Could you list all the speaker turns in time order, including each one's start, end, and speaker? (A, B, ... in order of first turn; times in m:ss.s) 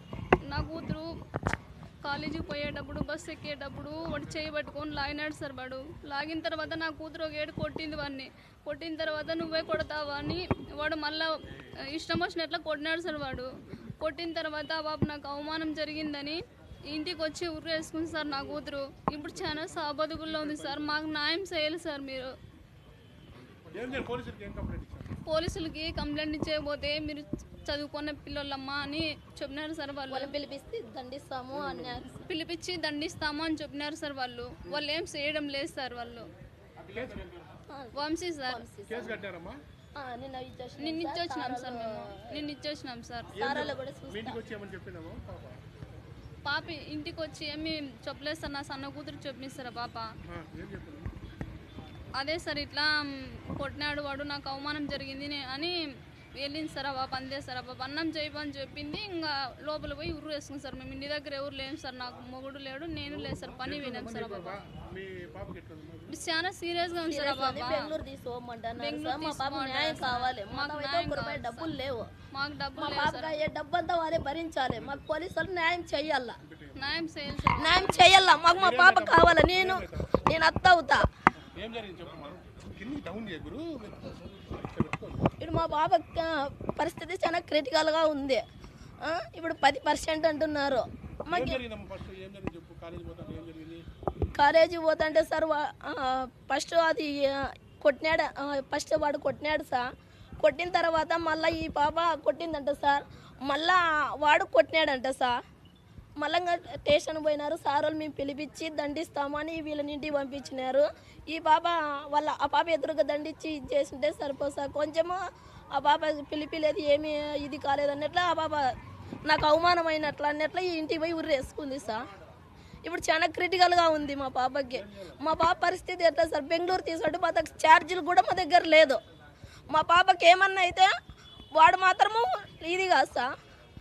0:00.4-0:01.1 A
0:02.0-0:22.3 A
0:19.1-0:20.9 B
0:23.7-0:25.1 B
0:25.2-0:30.3 A
0:30.1-0:32.3 C
0:31.5-0:32.1 B
0:32.2-0:36.3 A
0:36.8-0:37.4 B
0:37.7-0:39.2 C
0:37.9-0:38.6 A
0:38.9-0:39.6 B
0:40.0-0:42.4 C
0:40.8-0:43.5 A
0:43.3-0:45.6 B
0:43.4-0:44.4 C
0:46.4-0:50.1 A
0:50.2-0:51.1 B
0:52.2-0:55.8 A
0:56.4-1:04.6 A
1:03.2-1:06.1 B
1:06.1-1:07.9 A
1:07.1-1:12.1 C
1:08.8-1:11.7 A
1:12.3-1:13.4 A
1:12.8-1:16.4 C
1:14.7-1:15.0 B
1:16.4-1:16.9 B
1:16.8-1:18.2 A
1:17.6-1:21.0 C
1:18.5-1:20.2 B
1:21.4-1:25.3 B
1:25.4-1:28.4 C
1:29.0-1:31.6 C
1:31.3-1:33.8 B
1:34.4-1:39.8 C
1:40.4-1:45.3 C
1:46.2-1:55.2 C
1:55.7-1:58.7 C
1:59.2-2:02.0 C
2:02.8-2:09.0 C
2:04.7-2:05.2 B
2:09.7-2:10.9 C
2:11.6-2:13.3 C